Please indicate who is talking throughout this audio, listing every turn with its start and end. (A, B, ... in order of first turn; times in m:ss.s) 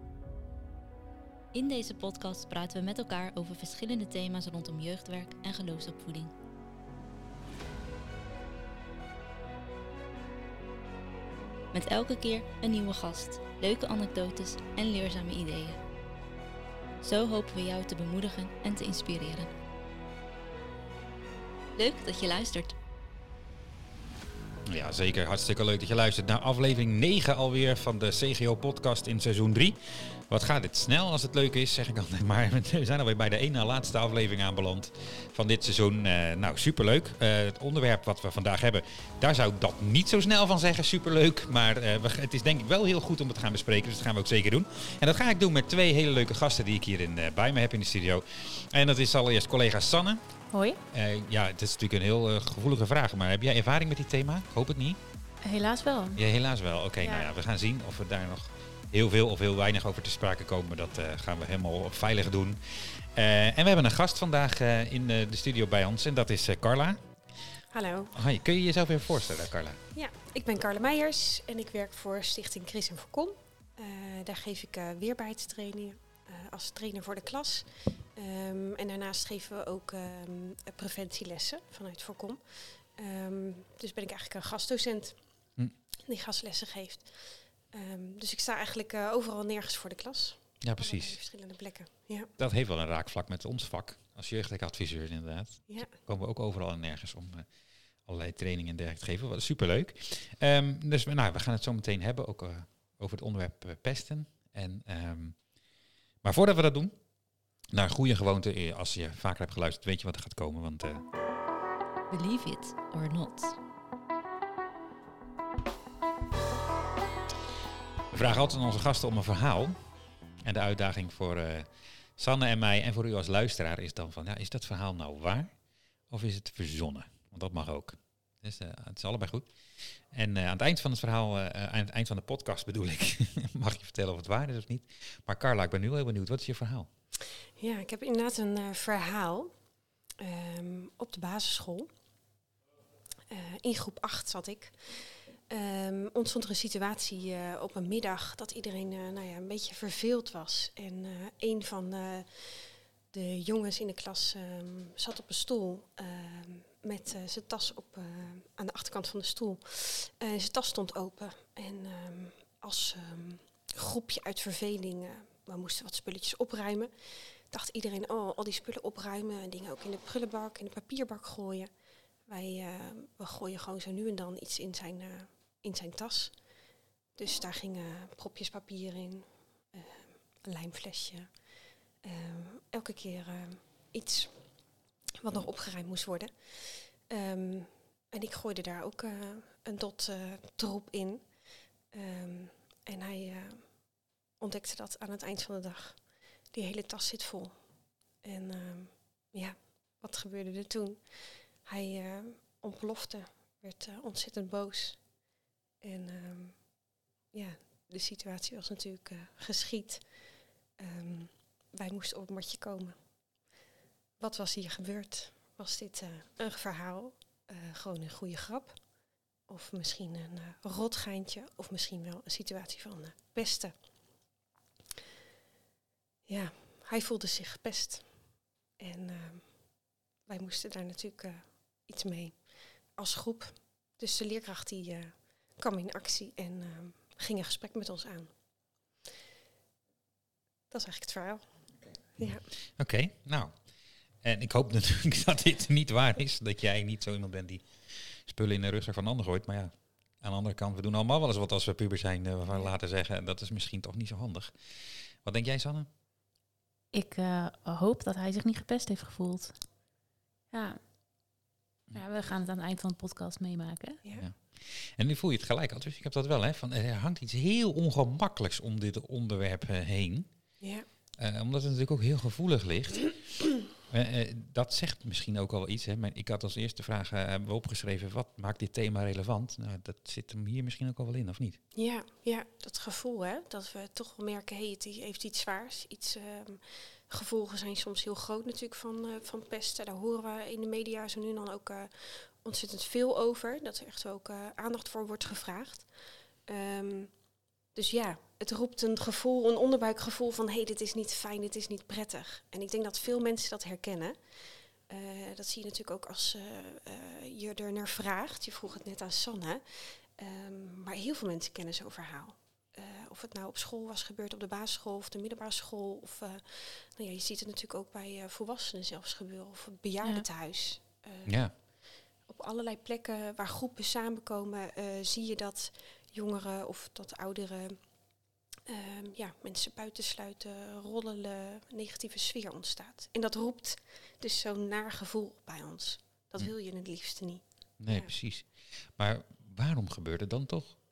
0:01.5-0:06.3 A
0:11.7-0:15.8 A
0:17.0-0:19.5 A
0:21.8-0:22.8 A
0:24.7-0:50.2 B
0:50.5-0:50.8 C
0:50.9-0:55.0 B
0:55.4-0:56.2 C
0:56.2-1:07.0 B
0:57.0-0:57.3 C
1:07.7-1:08.2 D
1:08.1-1:09.8 B
1:09.9-1:25.2 D
1:26.0-1:32.3 D
1:30.6-1:31.2 B
1:32.4-1:37.5 B
1:38.0-1:45.5 B
1:46.2-1:47.0 B
1:47.7-1:51.0 B
1:52.1-1:53.6 A
1:58.1-1:59.8 B
2:00.4-2:05.5 B
2:06.1-2:16.9 B
2:17.6-2:19.5 D
2:20.2-2:21.9 D
2:23.3-2:51.7 D
2:52.3-2:56.3 D
2:57.2-3:01.3 D
3:02.0-3:04.4 D
3:05.2-3:11.3 D
3:11.9-3:17.6 D
3:18.2-3:25.2 D
3:25.8-3:26.8 D
3:27.3-3:33.0 D
3:34.2-3:38.8 D
3:39.5-3:43.7 D
3:46.3-3:48.2 D
3:48.8-3:49.6 D
3:50.2-3:58.3 D
4:00.7-4:01.6 D
4:02.2-4:02.4 D
4:02.2-4:03.6 B
4:04.2-4:15.9 B
4:16.9-4:19.5 C
4:20.5-4:20.8 C
4:21.9-4:24.0 C
4:24.1-4:30.3 B
4:30.6-4:30.8 D
4:31.2-4:41.6 B
4:41.7-4:55.9 D
4:56.5-4:57.1 D
4:57.7-5:27.8 D
5:21.2-5:21.5 B
5:28.7-5:38.1 D
5:37.8-5:40.8 B